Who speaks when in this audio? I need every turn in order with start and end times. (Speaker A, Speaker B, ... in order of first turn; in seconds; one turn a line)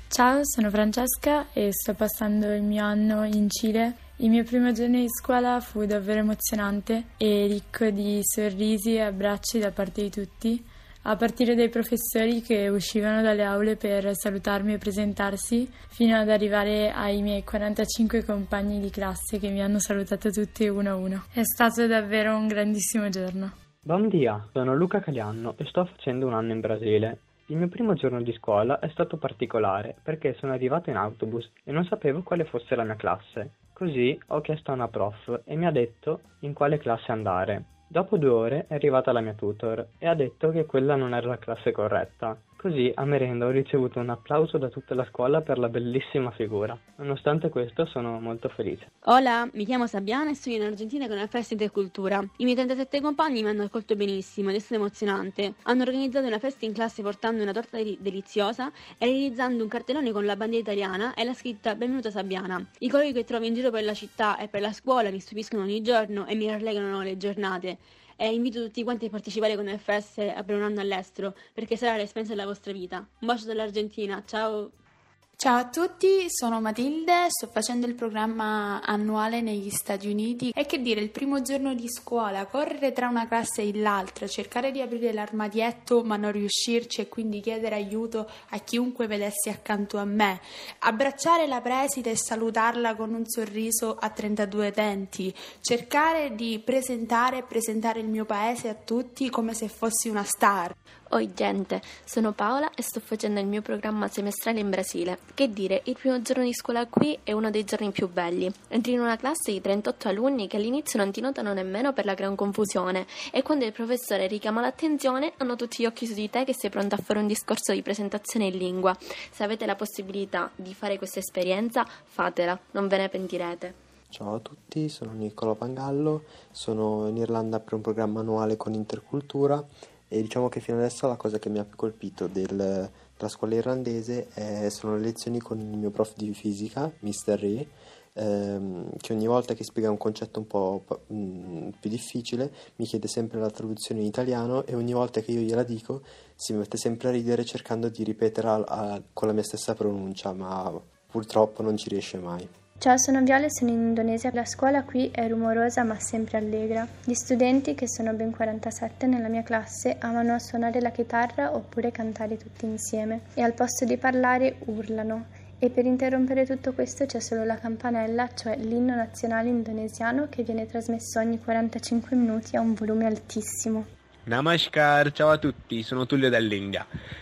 Speaker A: 0.1-23.5
Speaker B: 23.9-48.9
Speaker C: 49.0-74.7
Speaker D: 75.4-100.8
Speaker E: 101.1-123.7
Speaker F: 124.1-152.5
Speaker G: 152.8-173.9
Speaker H: 174.3-176.9